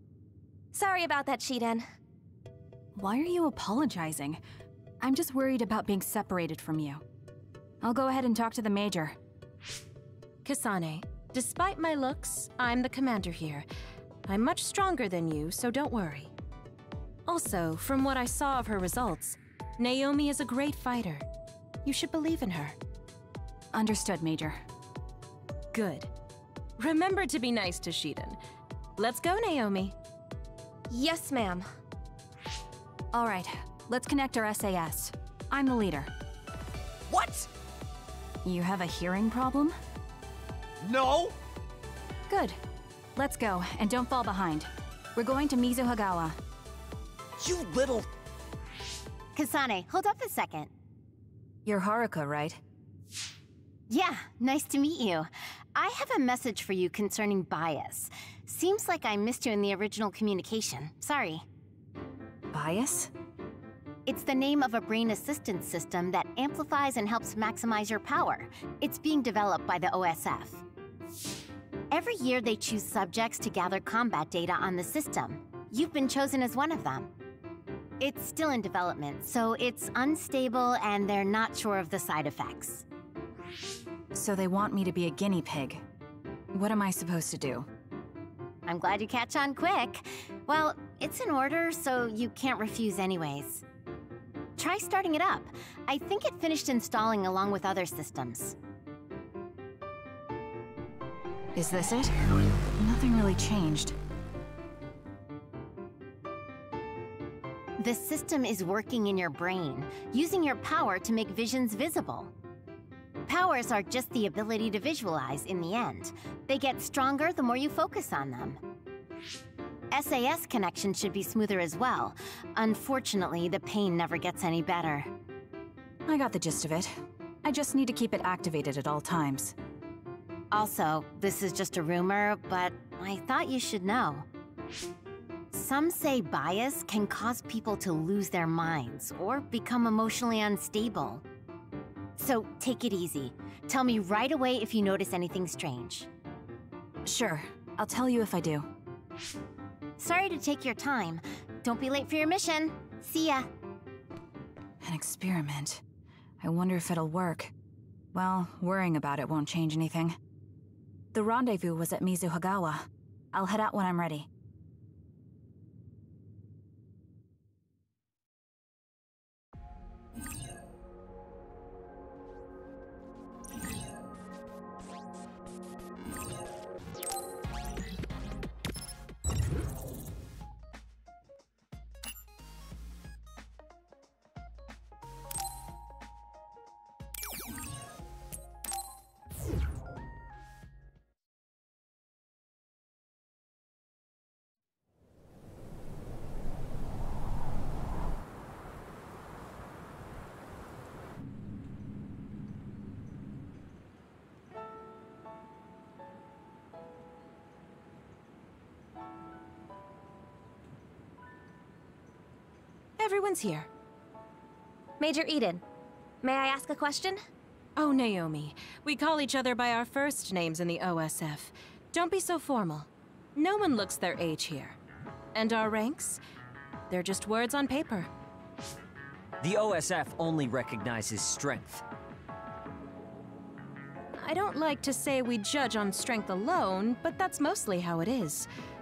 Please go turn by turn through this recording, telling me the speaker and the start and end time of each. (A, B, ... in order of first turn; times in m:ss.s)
0:00.7-0:01.9 A
0:03.0-0:04.4 B
0:05.0-0:07.0 B
0:07.8-0:09.2 B
0:10.4-0:13.7 C
0:14.3-0:16.3 C
0:17.3-0:21.2 C
0:21.8-0:22.8 C
0:23.7-0:24.6 B
0:25.7-0:26.1 C
0:26.8-0:28.4 C
0:29.0-0:30.0 C
0:30.9-0:31.7 A
0:33.1-0:36.1 B
0:37.1-0:37.5 D
0:38.4-0:39.8 B
0:40.8-0:41.4 D
0:42.3-0:42.6 B
0:43.2-0:46.4 B
0:47.4-0:48.1 D
0:49.4-0:50.7 E
0:51.7-0:52.6 B
0:53.9-1:01.4 E
1:02.5-1:03.1 B
1:04.1-1:10.6 E
1:11.9-1:17.1 E
1:18.0-1:22.8 E
1:24.1-1:25.8 B
1:26.5-1:27.7 B
1:28.7-1:33.6 E
1:34.6-1:38.6 E
1:41.6-1:42.1 B
1:42.8-1:44.0 B
1:47.8-1:52.3 E
1:53.3-1:58.6 E
1:59.9-2:05.1 E
2:06.1-2:06.9 B
2:07.4-2:09.6 B
2:10.5-2:14.3 E
2:15.5-2:21.2 E
2:22.2-2:26.1 E
2:27.0-2:28.7 B
2:30.0-2:33.5 E
2:34.8-2:35.8 B
2:36.4-2:37.5 B
2:38.1-2:40.2 B
2:41.1-2:44.3 B
3:33.0-3:33.7 C
3:35.0-3:35.6 A
3:36.2-3:37.2 A
3:37.8-3:44.8 C
3:45.3-3:46.2 C
3:46.9-3:48.1 C
3:49.4-3:51.8 D
3:54.2-3:58.5 C